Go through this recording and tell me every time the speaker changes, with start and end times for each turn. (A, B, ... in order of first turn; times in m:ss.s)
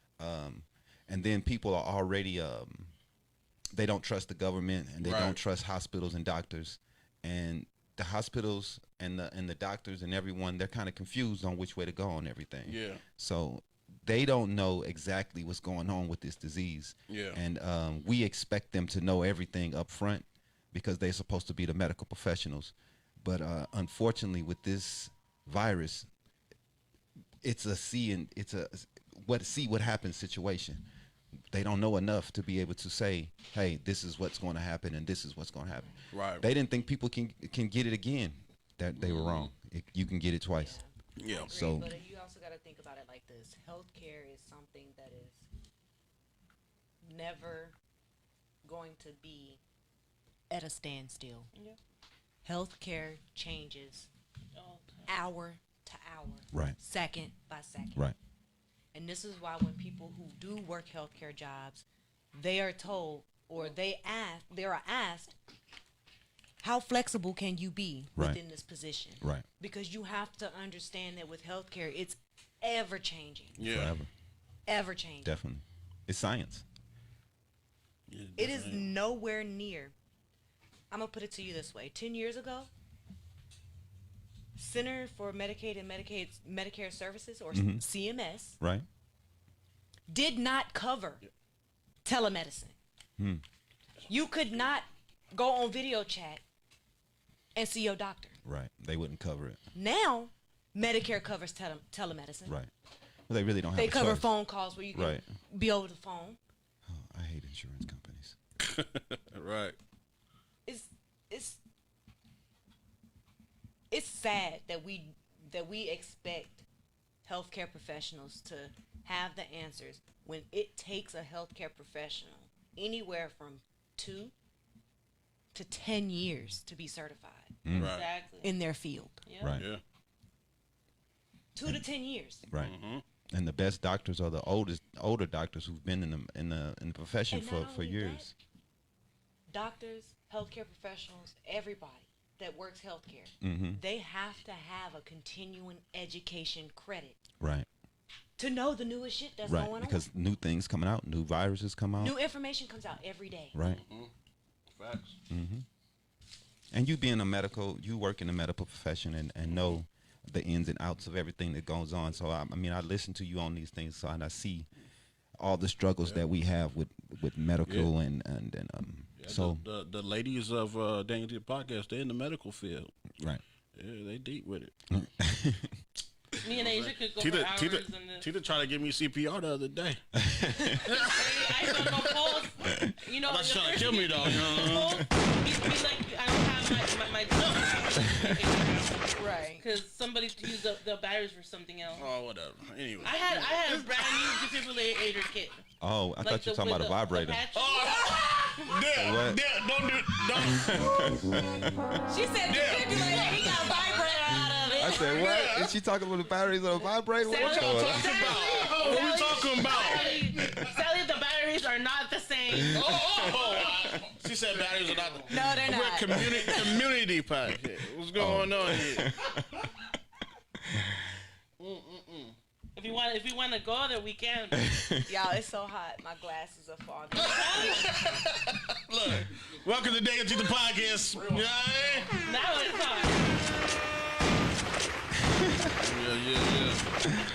0:00.2-0:02.9 A
0:03.7-0:26.1 A
0:05.0-0:05.4 B
0:12.6-0:13.0 B
0:17.1-0:17.4 B
0:27.4-0:30.8 A
0:31.5-0:40.8 A
0:36.1-0:36.4 B
0:39.0-0:39.5 B
0:40.6-0:45.4 C
0:41.2-0:41.5 B
0:41.5-0:41.9 A
0:47.0-0:47.7 C
0:48.6-0:49.6 C
0:50.5-0:51.5 C
0:51.5-0:51.8 D
0:52.4-0:54.1 C
0:54.6-0:55.1 D
0:55.0-0:58.1 C
0:58.9-1:05.3 C
1:06.6-1:13.6 C
1:13.6-1:14.0 B
1:13.6-1:14.1 A
1:14.7-1:15.3 C
1:15.2-1:16.6 A
1:18.1-1:18.9 B
1:18.4-1:19.9 C
1:20.9-1:22.7 C
1:24.6-1:28.6 C
1:27.5-1:27.8 A
1:28.6-1:28.9 A
1:30.1-1:31.2 C
1:32.0-1:32.8 C
1:34.1-1:36.4 C
1:37.6-1:38.4 C
1:38.4-1:39.6 A
1:39.7-1:42.6 C
1:43.3-1:44.3 A
1:43.8-1:46.4 C
1:44.9-1:45.2 A
1:46.9-1:48.4 A
1:48.6-1:49.8 B
1:50.7-1:51.6 C
1:53.9-1:56.7 C
1:57.2-2:04.3 C
2:05.5-2:07.6 C
2:07.6-2:08.0 A
2:07.7-2:08.1 B
2:07.8-2:08.6 D
2:08.4-2:09.2 C
2:09.2-2:09.6 D
2:09.4-2:09.7 A
2:09.6-2:09.8 B
2:11.6-2:12.4 C
2:12.5-2:12.7 A
2:12.6-2:13.0 B
2:13.3-2:18.3 A
2:17.3-2:18.3 C
2:19.5-2:27.2 C
2:23.4-2:23.8 A
2:27.4-2:27.7 A
2:28.4-2:30.1 C
2:29.5-2:32.2 A
2:32.0-2:33.6 C
2:33.5-2:33.8 A
2:33.6-2:34.1 B
2:34.7-2:35.2 B
2:35.3-2:35.6 A
2:36.7-2:44.7 A
2:45.4-2:49.6 A
2:47.6-2:47.9 B
2:49.2-2:53.0 B
2:53.7-2:54.8 B
2:54.9-2:55.8 A
2:56.4-2:58.3 D
2:56.4-3:00.0 B
3:00.2-3:00.9 A
3:00.6-3:02.5 B
3:00.8-3:12.1 D
3:02.6-3:02.9 A
3:03.2-3:05.0 B
3:04.2-3:05.0 A
3:09.2-3:09.6 C
3:11.9-3:14.4 B
3:13.0-3:15.6 D
3:15.8-3:17.4 A
3:16.2-3:18.1 D
3:17.5-3:21.0 B
3:18.0-3:18.4 C
3:18.6-3:18.9 D
3:18.9-3:19.4 A
3:20.4-3:22.0 A
3:22.1-3:25.2 C
3:22.4-3:23.7 B
3:23.5-3:25.2 D
3:24.8-3:28.3 A
3:24.9-3:25.8 B
3:27.2-3:33.2 D
3:27.3-3:30.2 B
3:32.6-3:39.4 B
3:32.9-3:33.3 A
3:35.3-3:36.7 C
3:36.1-3:36.6 A
3:38.2-3:39.6 A
3:41.6-3:42.4 B
3:42.8-3:44.8 D
3:44.6-3:45.0 A
3:45.0-3:47.9 C
3:47.2-3:52.1 B
3:47.2-3:47.9 D
3:52.2-3:53.3 D
3:55.8-3:56.9 B